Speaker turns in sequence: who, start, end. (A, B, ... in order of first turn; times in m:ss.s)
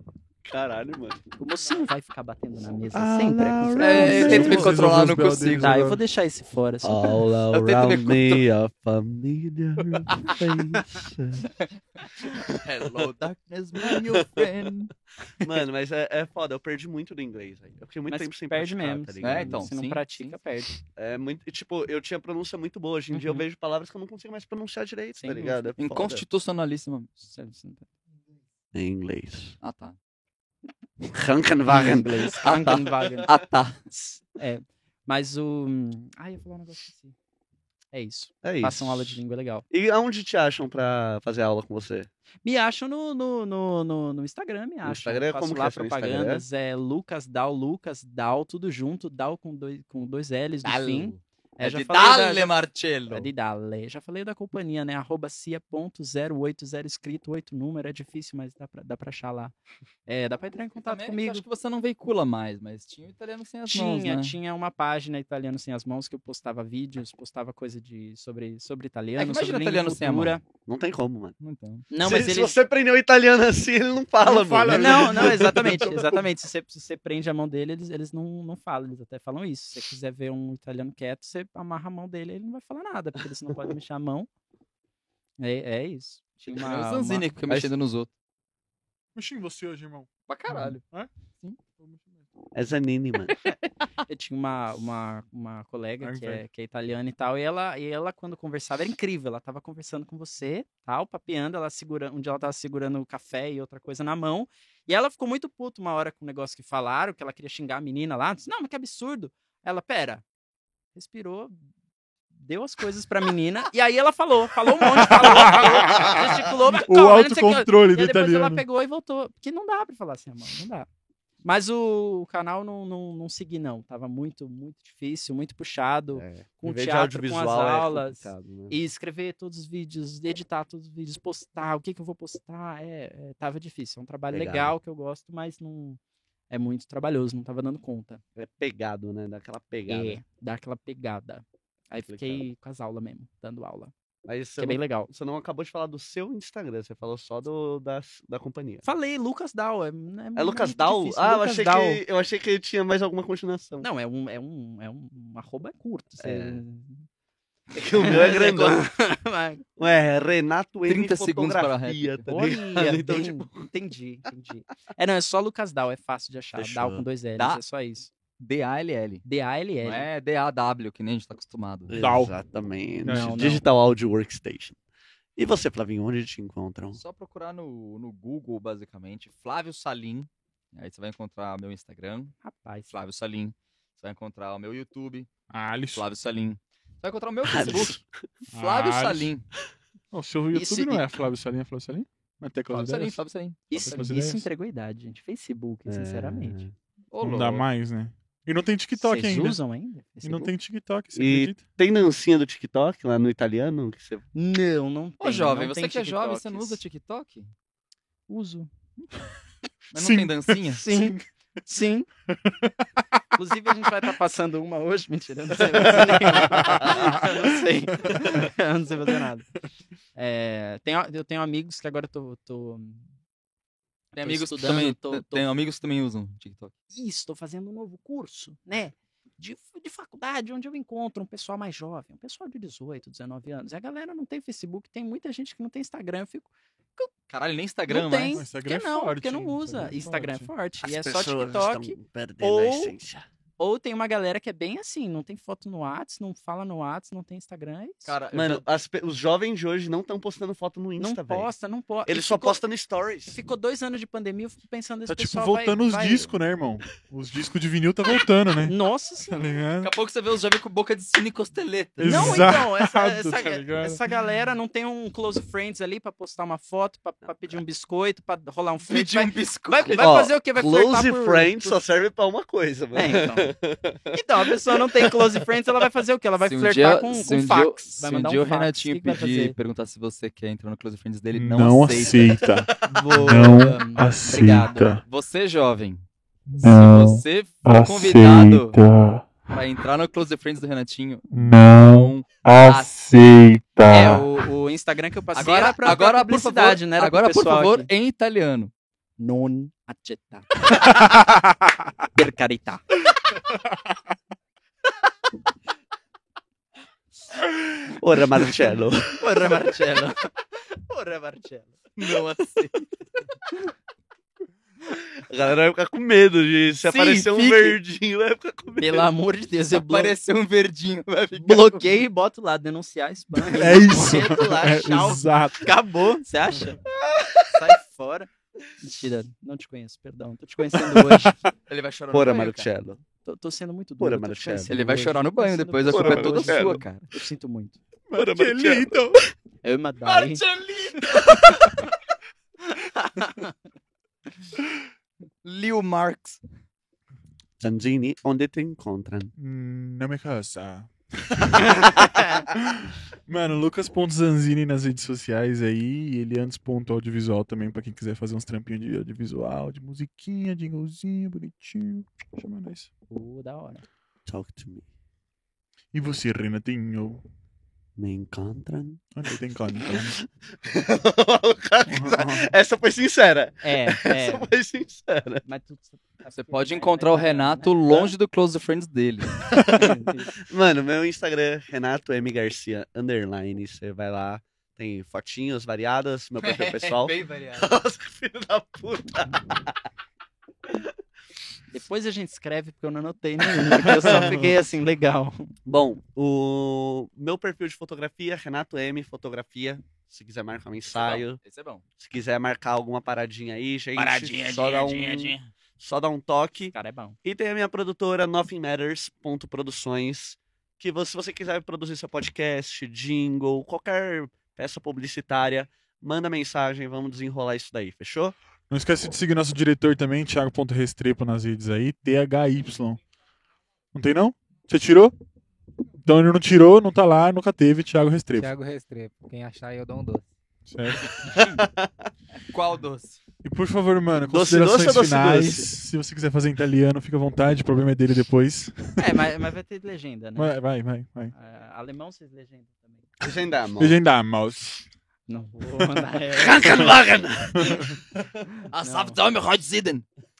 0:00.4-0:01.2 A
0:01.4-0:04.8 B
0:02.9-0:04.8 A
0:03.8-0:05.7 C
0:04.1-0:06.0 D
0:05.6-0:07.2 B
0:06.8-0:11.5 A
0:07.5-0:08.4 C
0:12.6-0:14.9 C
0:13.8-0:14.5 A
0:15.4-0:19.7 A
0:18.1-0:20.7 B
0:19.2-0:20.4 C
0:20.9-0:26.2 A
0:23.1-0:23.4 B
0:25.2-0:25.7 B
0:25.8-0:27.1 C
0:27.2-0:27.9 B
0:28.7-0:29.5 A
0:29.6-0:30.0 C
0:31.1-0:32.8 A
0:31.7-0:33.3 B
0:32.4-0:33.8 C
0:33.9-0:37.1 B
0:37.9-0:39.6 B
0:38.4-0:42.1 A
0:42.4-0:52.5 B
0:44.8-0:46.4 A
0:50.6-0:53.3 C
0:53.1-0:59.5 B
1:00.0-1:01.4 B
1:00.8-1:04.4 C
1:03.7-1:10.4 B
1:09.2-1:10.4 C
1:10.7-1:11.4 A
1:11.4-1:11.9 C
1:11.9-1:12.6 B
1:12.0-1:16.0 A
1:14.2-1:16.2 D
1:14.7-1:24.3 B
1:25.4-1:27.3 B
1:26.5-1:28.1 C
1:29.1-1:30.8 D
1:30.3-1:30.8 C
1:31.8-1:32.2 D
1:32.5-1:33.4 A
1:34.1-1:50.2 B
1:36.0-1:36.4 D
1:50.9-1:51.6 B
1:52.4-2:00.9 B
1:54.8-1:58.6 D
2:01.4-2:16.0 B
2:06.1-2:08.8 A
2:14.3-2:14.7 A
2:16.5-2:18.2 B
2:18.4-2:20.2 A
2:19.9-2:23.9 B
2:22.0-2:22.4 A
2:24.2-2:28.8 A
2:24.6-2:25.1 B
2:28.8-2:32.0 B
2:30.4-2:33.9 A
2:33.8-2:37.1 B
2:36.2-2:36.6 A
2:37.7-2:38.8 A
2:37.9-2:39.6 B
2:39.8-2:43.7 A
2:40.9-2:42.2 C
2:42.3-2:48.1 B
2:46.5-2:47.0 A
2:48.4-2:49.2 C
2:49.2-2:50.1 B
2:49.8-2:51.9 C
2:51.9-2:54.8 A
2:52.0-2:52.3 D
2:53.0-2:53.5 D
2:53.0-2:53.6 B
2:55.4-2:57.0 A
2:56.9-3:02.3 C
3:02.4-3:02.9 B
3:02.9-3:05.3 C
3:05.5-3:06.0 D
3:05.9-3:08.0 C
3:07.4-3:08.0 A
3:08.5-3:09.3 D
3:08.5-3:09.4 C
3:10.1-3:14.5 D
3:10.5-3:11.0 B
3:12.7-3:13.7 C
3:13.7-3:16.6 B
3:15.9-3:16.7 A
3:17.1-3:17.6 C
3:17.2-3:19.6 D
3:19.0-3:20.5 B
3:20.2-3:21.6 D
3:21.1-3:24.2 A
3:24.3-3:26.8 B
3:25.2-3:27.5 C
3:28.3-3:28.7 B
3:29.9-3:30.8 C
3:29.9-3:31.2 D
3:30.7-3:32.1 B
3:32.3-3:33.0 D
3:33.4-3:39.5 B
3:35.8-3:37.4 D
3:38.1-3:38.4 D
3:40.1-3:43.1 B
3:44.1-3:46.7 C
3:44.2-3:45.5 B
3:46.9-3:57.1 B
3:57.3-3:58.4 C
3:57.9-4:02.9 B
3:58.3-4:00.5 D
4:00.8-4:03.2 A
4:03.6-4:08.1 B
4:08.0-4:08.6 C
4:08.3-4:11.5 A
4:11.0-4:12.6 B
4:12.0-4:13.4 A
4:13.3-4:16.4 B
4:15.1-4:18.7 D
4:18.6-4:19.6 B
4:19.3-4:19.9 D
4:19.8-4:22.5 C
4:22.0-4:24.0 D
4:22.0-4:31.8 B
4:28.9-4:30.0 C
4:30.0-4:35.1 A
4:32.9-4:33.5 B
4:34.1-4:39.5 B
4:36.4-4:42.4 C
4:41.3-4:45.0 D
4:42.8-4:45.0 B
4:45.0-4:46.0 C
4:46.6-4:48.8 C
4:46.6-4:49.4 D
4:49.5-4:52.9 C
4:51.3-4:54.2 D
4:53.9-4:57.9 B
4:55.4-4:58.7 C
4:59.2-5:00.6 B
5:00.8-5:01.2 D
5:02.1-5:02.8 B
5:07.9-5:09.2 A
5:09.1-5:11.8 B
5:12.0-5:12.8 C
5:12.0-5:12.6 A
5:15.2-5:19.1 A
5:16.9-5:17.8 C
5:18.8-5:20.1 B
5:19.7-5:21.8 C
5:21.3-5:26.8 B
5:23.4-5:25.7 D
5:27.0-5:27.5 A
5:27.5-5:31.4 B
5:30.8-5:31.5 D
5:31.7-5:32.7 C
5:32.1-5:33.0 A
5:33.2-5:37.8 B
5:34.0-5:34.7 A
5:34.7-5:37.1 C
5:35.9-5:36.8 A
5:38.1-5:39.2 D
5:38.1-5:39.2 A
5:39.6-5:40.4 B
5:40.0-5:41.6 C
5:41.0-5:41.9 B
5:42.7-5:43.5 B
5:45.4-5:46.4 C
5:47.6-5:49.3 A
5:49.4-6:02.9 D
6:03.1-6:03.8 B
6:04.2-6:04.8 A
6:05.9-6:07.2 D
6:08.0-6:09.0 A
6:09.1-6:10.2 D
6:09.8-6:15.4 A
6:11.9-6:12.4 D
6:13.6-6:14.5 B
6:15.4-6:17.7 B
6:16.3-6:19.7 C
6:19.5-6:19.9 A
6:19.7-6:20.3 B
6:20.4-6:29.9 A
6:26.4-6:27.7 C
6:31.7-6:35.5 B
6:33.6-6:34.4 A
6:35.6-6:41.4 A
6:40.9-6:41.8 C
6:42.0-6:58.3 A
6:43.9-6:45.5 C
6:46.7-6:47.2 B
6:58.7-7:03.0 D
7:03.9-7:05.1 D
7:06.0-7:08.5 D
7:08.3-7:10.3 E
7:10.6-7:11.3 D
7:11.1-7:12.1 A
7:12.3-7:13.2 C
7:13.4-7:19.0 D
7:14.2-7:15.8 A
7:19.0-7:20.5 B
7:20.4-7:21.3 D
7:21.3-7:23.0 B
7:23.2-7:24.0 A
7:23.8-7:24.8 D
7:25.3-7:26.7 B
7:26.3-7:28.4 A
7:28.7-7:30.0 C
7:28.8-7:29.2 B